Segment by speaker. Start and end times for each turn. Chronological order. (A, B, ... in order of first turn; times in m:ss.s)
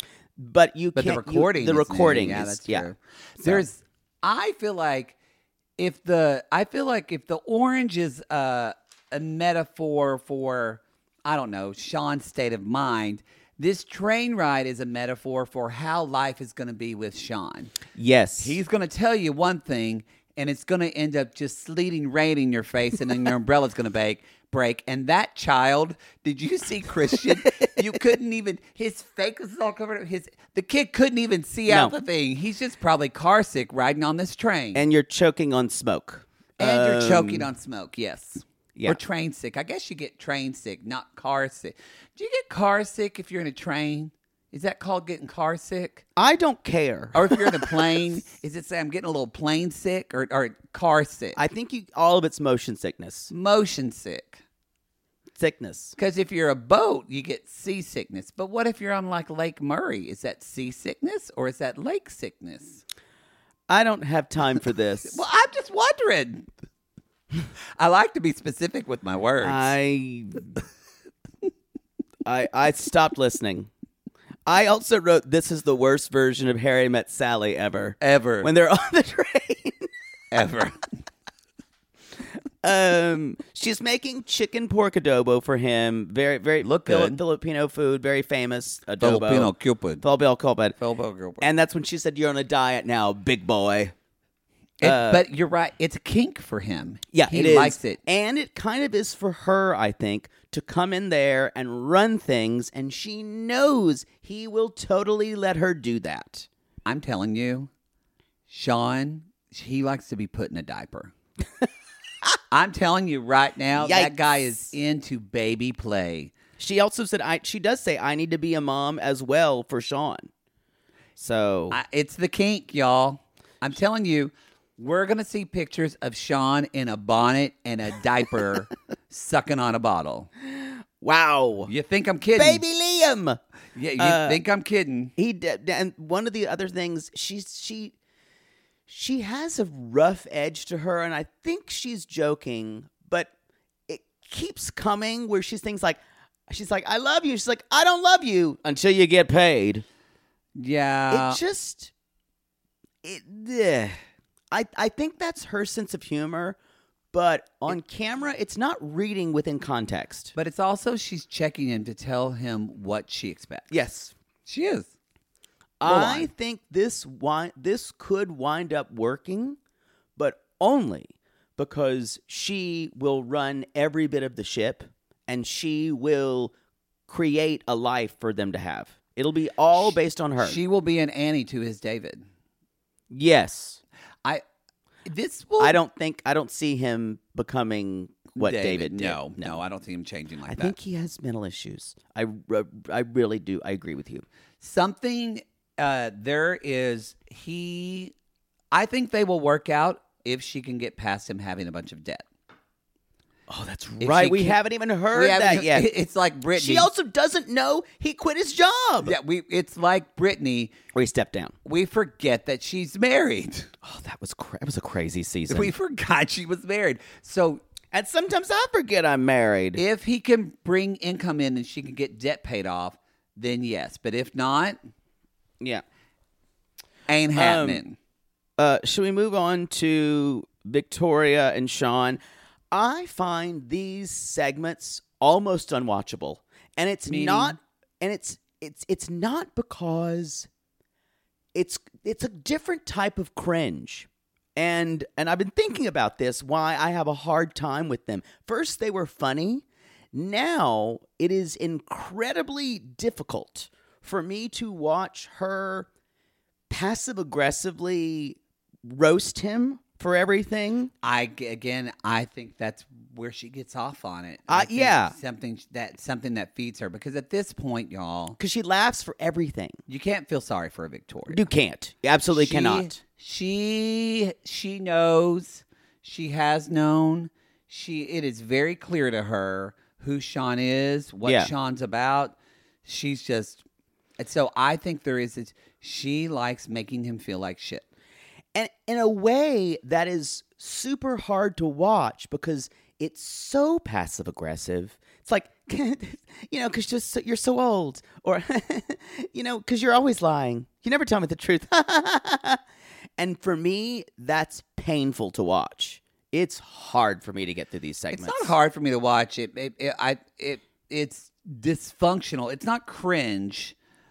0:00.4-0:02.9 A
0:01.0-0:05.1 B
0:03.4-0:03.6 A
0:05.8-0:17.7 B
0:18.0-0:18.6 A
0:18.4-0:34.8 B
0:31.7-0:31.9 A
0:34.7-0:37.5 A
0:36.6-0:46.0 B
0:46.2-0:47.8 A
0:47.1-0:51.4 B
0:51.4-0:53.3 A
0:53.3-0:54.4 B
0:55.3-0:55.9 A
0:56.0-1:02.8 B
1:03.7-1:05.2 A
1:05.1-1:06.5 B
1:07.8-1:09.7 B
1:09.4-1:10.6 A
1:12.2-1:13.7 A
1:14.4-1:19.9 A
1:18.0-1:18.5 B
1:20.3-1:20.8 B
1:22.6-1:30.8 A
1:26.6-1:27.2 B
1:29.0-1:30.0 B
1:30.8-1:31.4 B
1:31.4-1:33.9 A
1:34.8-1:38.0 B
1:34.8-1:35.2 A
1:37.1-1:46.5 A
1:46.8-1:47.7 B
1:48.5-1:51.1 B
1:52.5-1:56.3 B
1:53.7-1:54.6 A
1:56.6-2:00.3 A
2:01.2-2:01.8 A
2:01.7-2:10.3 B
2:11.0-2:11.7 A
2:11.6-2:12.6 B
2:12.3-2:13.4 A
2:13.8-2:15.1 B
2:14.0-2:14.4 A
2:15.2-2:17.9 A
2:18.9-2:23.3 A
2:23.9-2:29.8 A
2:30.6-2:31.4 B
2:31.1-2:31.9 A
2:33.0-2:34.0 A
2:34.5-2:36.6 A
2:37.1-2:40.3 A
2:40.3-2:43.7 B
2:43.7-2:44.1 A
2:44.5-2:44.9 B
2:45.8-2:49.6 A
2:45.8-2:46.3 B
2:50.2-2:56.5 A
2:57.1-3:00.6 A
2:59.8-3:02.2 B
3:03.1-3:03.8 A
3:05.0-3:05.8 B
3:05.6-3:09.6 A
3:08.4-3:10.7 B
3:10.5-3:14.2 A
3:14.6-3:18.1 B
3:18.7-3:22.2 B
3:23.5-3:25.9 A
3:24.0-3:24.6 B
3:25.1-3:26.9 B
3:26.6-3:29.2 A
3:29.0-3:30.7 B
3:30.9-3:31.5 A
3:31.6-3:33.7 B
3:33.8-3:35.7 A
3:35.5-3:37.6 B
3:37.9-3:39.8 A
3:39.8-3:44.8 B
3:47.1-3:48.0 B
3:47.4-3:47.8 A
3:48.6-3:52.2 A
3:52.7-4:00.5 A
3:57.1-3:57.6 B
4:01.5-4:15.9 A
4:16.7-4:20.9 A
4:21.0-4:28.4 B
4:24.5-4:25.1 A
4:28.4-4:29.8 A
4:29.9-4:31.4 B
4:31.3-4:33.0 A
4:32.4-4:43.6 B
4:41.2-4:41.5 A
4:44.2-4:47.8 B
4:48.5-5:02.6 A
5:03.2-5:08.5 A
5:08.1-5:13.7 B